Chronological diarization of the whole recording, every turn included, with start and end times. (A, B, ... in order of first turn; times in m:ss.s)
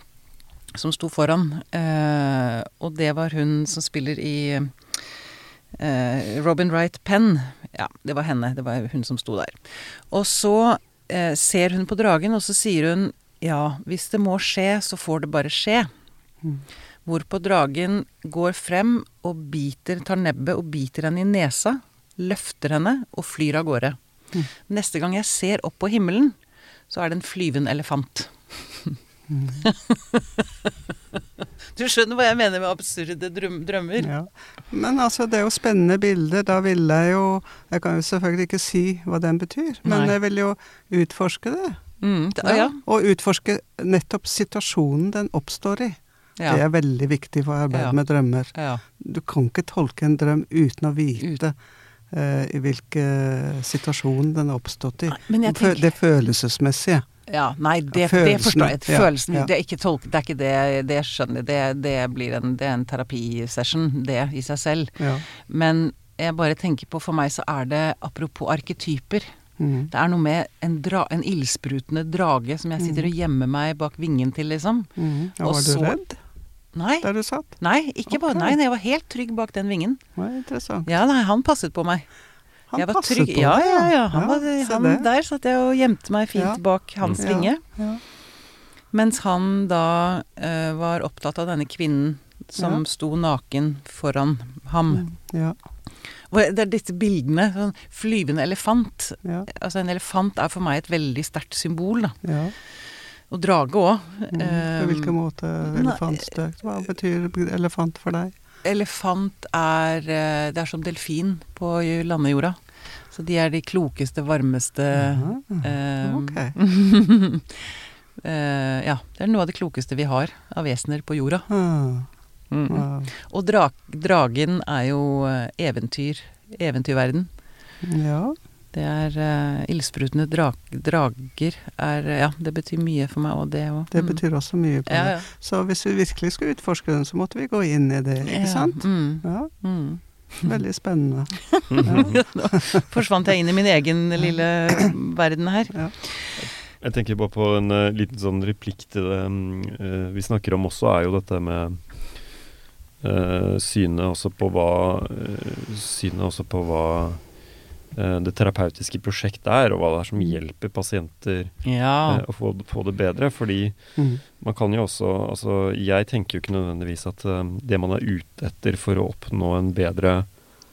0:00.7-0:05.2 A
0:05.7-0:15.9 A
0:17.0-0:24.0 A
0:24.6-0:26.4 A
0:26.9-0:29.0 A
0:29.3-0:29.6 B
0:29.6-0:30.4 A
0:31.7-0:34.1 A
0:34.0-0:41.8 B
0:39.8-0:40.1 A
0:42.0-0:42.8 A
0:42.4-0:51.5 B
0:48.5-0:48.8 A
0:52.1-0:57.0 B
0:55.1-0:55.9 A
0:57.3-1:09.3 A
0:57.9-0:59.5 B
1:05.0-1:05.2 B
1:09.6-1:09.9 B
1:09.9-1:16.0 A
1:12.8-1:13.1 B
1:15.0-1:16.2 B
1:16.7-1:20.0 A
1:17.0-1:18.5 B
1:20.2-1:20.9 B
1:20.8-1:22.1 A
1:22.7-1:25.1 B
1:22.7-1:27.6 A
1:26.3-1:28.0 B
1:28.9-1:35.0 A
1:32.6-1:32.8 B
1:34.9-1:35.6 B
1:36.2-1:42.2 A
1:42.2-1:42.5 B
1:43.3-1:46.2 A
1:44.3-1:48.3 B
1:48.6-2:01.5 A
1:54.9-1:56.5 B
2:01.5-2:02.1 B
2:02.5-2:07.3 A
2:02.6-2:03.1 B
2:07.8-2:08.4 B
2:08.7-2:14.2 A
2:13.9-2:19.5 B
2:14.8-2:15.3 A
2:18.2-2:20.5 A
2:20.4-2:22.6 B
2:21.6-2:26.4 A
2:21.7-2:22.2 C
2:26.4-2:32.4 C
2:33.0-2:37.3 C
2:37.9-2:50.4 C
2:41.6-2:42.2 A